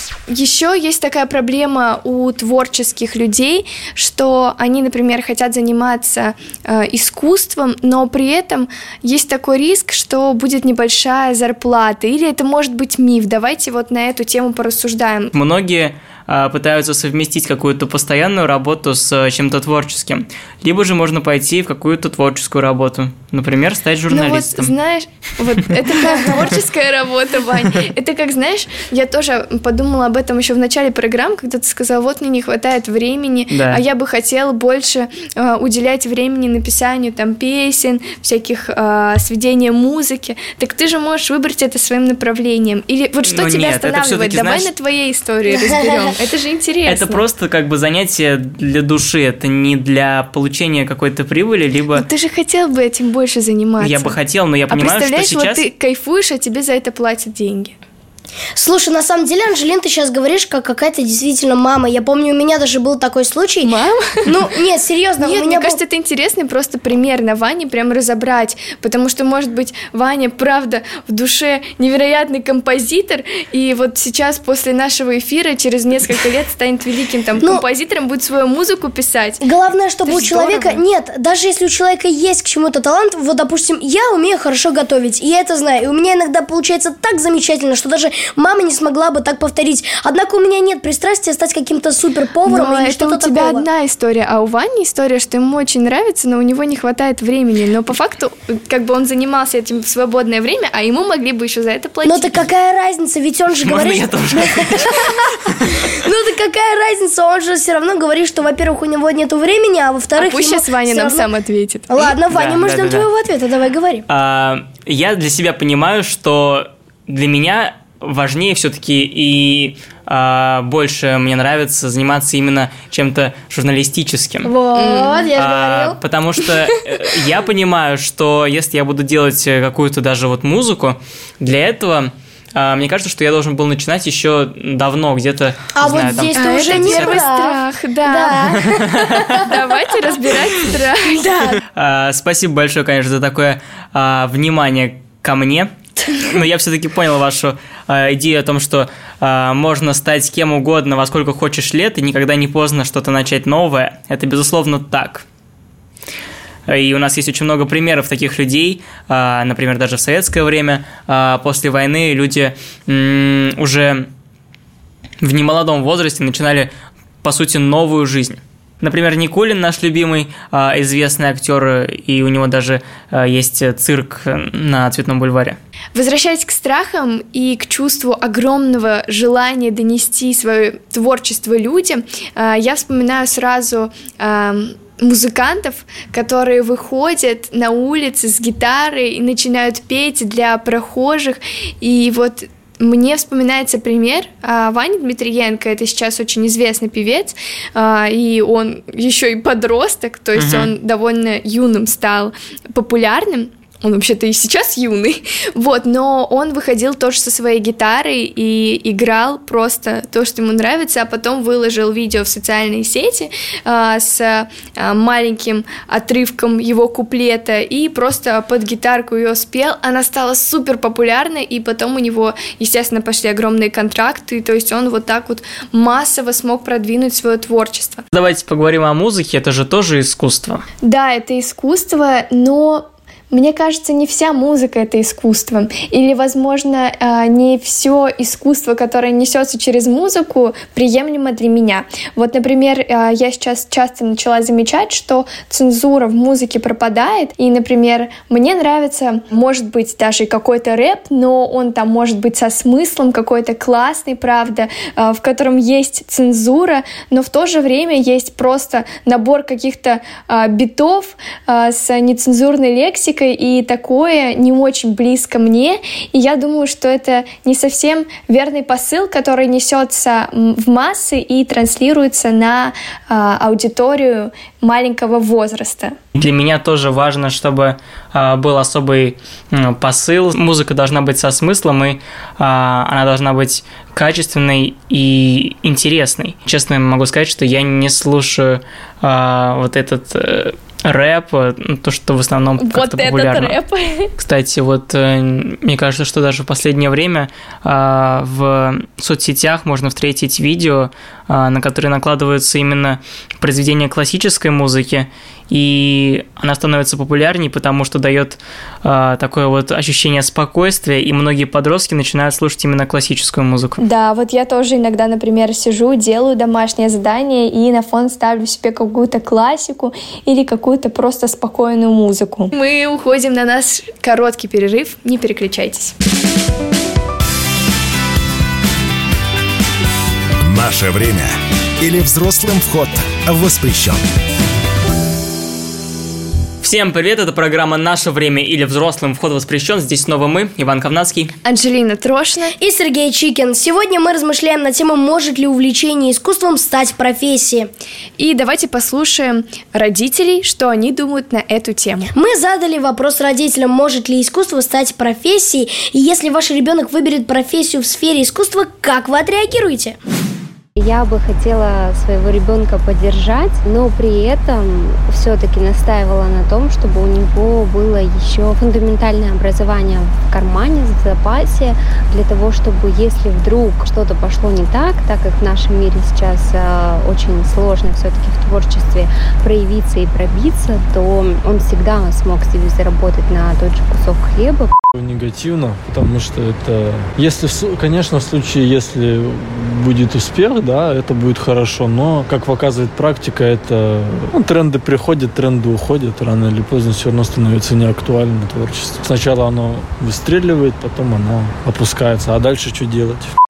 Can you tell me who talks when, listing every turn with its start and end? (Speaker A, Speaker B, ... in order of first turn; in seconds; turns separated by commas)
Speaker A: 0.3-15.3, Speaker B: 15.3-24.7, Speaker A: 24.1-47.2, Speaker B: 33.5-33.8, Speaker B: 43.3-44.7, Speaker C: 45.5-46.1, Speaker B: 46.9-52.0, Speaker A: 51.9-54.2, Speaker B: 53.8-55.6, Speaker A: 54.7-57.8, Speaker C: 58.5-65.8, Speaker A: 63.6-64.3, Speaker A: 65.2-79.4, Speaker C: 79.4-93.7, Speaker A: 80.0-80.8, Speaker A: 92.5-102.4, Speaker C: 102.0-111.3, Speaker B: 103.6-105.1, Speaker A: 110.2-111.9, Speaker C: 111.9-114.0, Speaker B: 112.3-113.1, Speaker B: 114.1-124.5, Speaker C: 124.5-126.0, Speaker A: 124.8-125.2, Speaker B: 125.3-137.2, Speaker C: 135.7-139.4, Speaker A: 136.3-138.6, Speaker B: 138.6-139.3, Speaker A: 139.3-141.6, Speaker B: 141.7-145.7, Speaker B: 146.2-155.2, Speaker B: 156.7-164.1, Speaker B: 165.2-166.7, Speaker B: 167.2-175.6, Speaker A: 175.9-228.0, Speaker B: 200.3-200.7, Speaker B: 228.1-230.6, Speaker A: 230.8-275.9, Speaker B: 276.1-293.6, Speaker A: 292.6-294.1, Speaker B: 294.2-313.8, Speaker A: 313.8-325.9, Speaker D: 330.4-334.0, Speaker B: 336.6-341.3, Speaker A: 341.4-342.5, Speaker C: 342.6-347.7, Speaker A: 348.2-352.1, Speaker C: 352.1-359.9, Speaker E: 360.8-384.7, Speaker F: 384.9-403.3